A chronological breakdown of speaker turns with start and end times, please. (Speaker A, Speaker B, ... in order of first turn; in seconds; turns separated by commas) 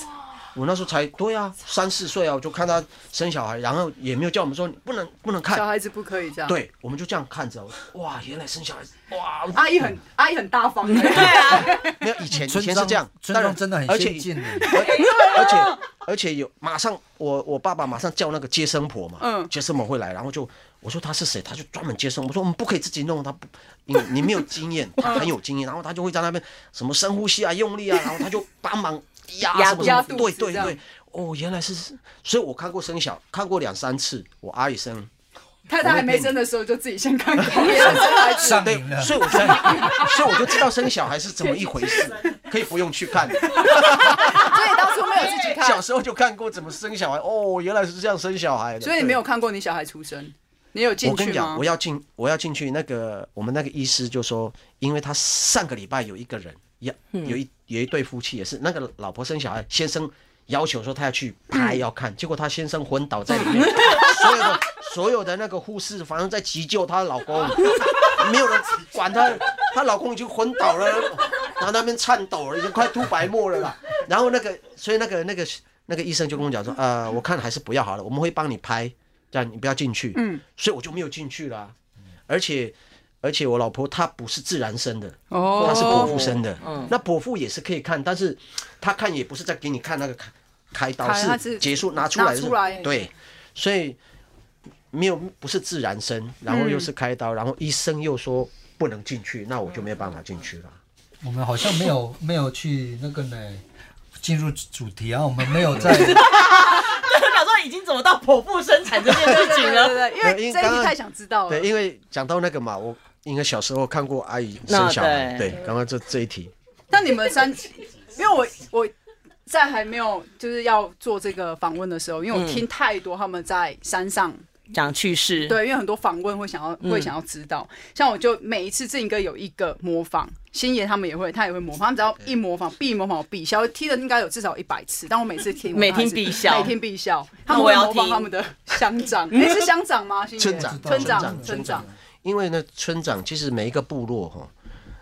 Speaker A: 0.5-5.7, Speaker B: 5.5-6.5, Speaker A: 6.5-9.9, Speaker B: 9.5-12.1, Speaker C: 10.9-11.8, Speaker A: 11.2-35.1, Speaker D: 12.4-14.8, Speaker B: 14.6-15.8, Speaker C: 15.0-15.3, Speaker B: 19.2-19.5, Speaker B: 25.0-25.3, Speaker C: 29.5-30.3, Speaker B: 29.7-30.8, Speaker B: 35.7-38.7, Speaker A: 35.8-36.4, Speaker A: 37.4-49.2, Speaker D: 38.2-39.7, Speaker B: 39.2-40.6, Speaker B: 41.6-42.2, Speaker B: 43.5-45.8, Speaker B: 48.8-51.6, Speaker A: 51.0-81.7, Speaker C: 63.5-64.2, Speaker B: 80.1-80.4, Speaker A: 82.3-94.0, Speaker B: 85.3-86.3, Speaker C: 85.6-86.9, Speaker B: 91.0-92.9, Speaker A: 94.9-100.8, Speaker B: 96.5-96.9, Speaker D: 101.2-103.6, Speaker D: 104.2-106.3, Speaker C: 105.8-110.0, Speaker B: 109.1-111.7, Speaker A: 110.2-111.0, Speaker A: 111.5-116.5, Speaker C: 114.7-115.6, Speaker B: 116.9-118.9, Speaker B: 119.5-124.4, Speaker C: 122.3-122.6, Speaker C: 124.7-125.6, Speaker B: 125.5-141.8, Speaker C: 126.8-127.1, Speaker C: 135.7-136.8, Speaker C: 137.5-138.3, Speaker C: 139.3-139.7, Speaker A: 140.4-144.5, Speaker D: 140.6-141.9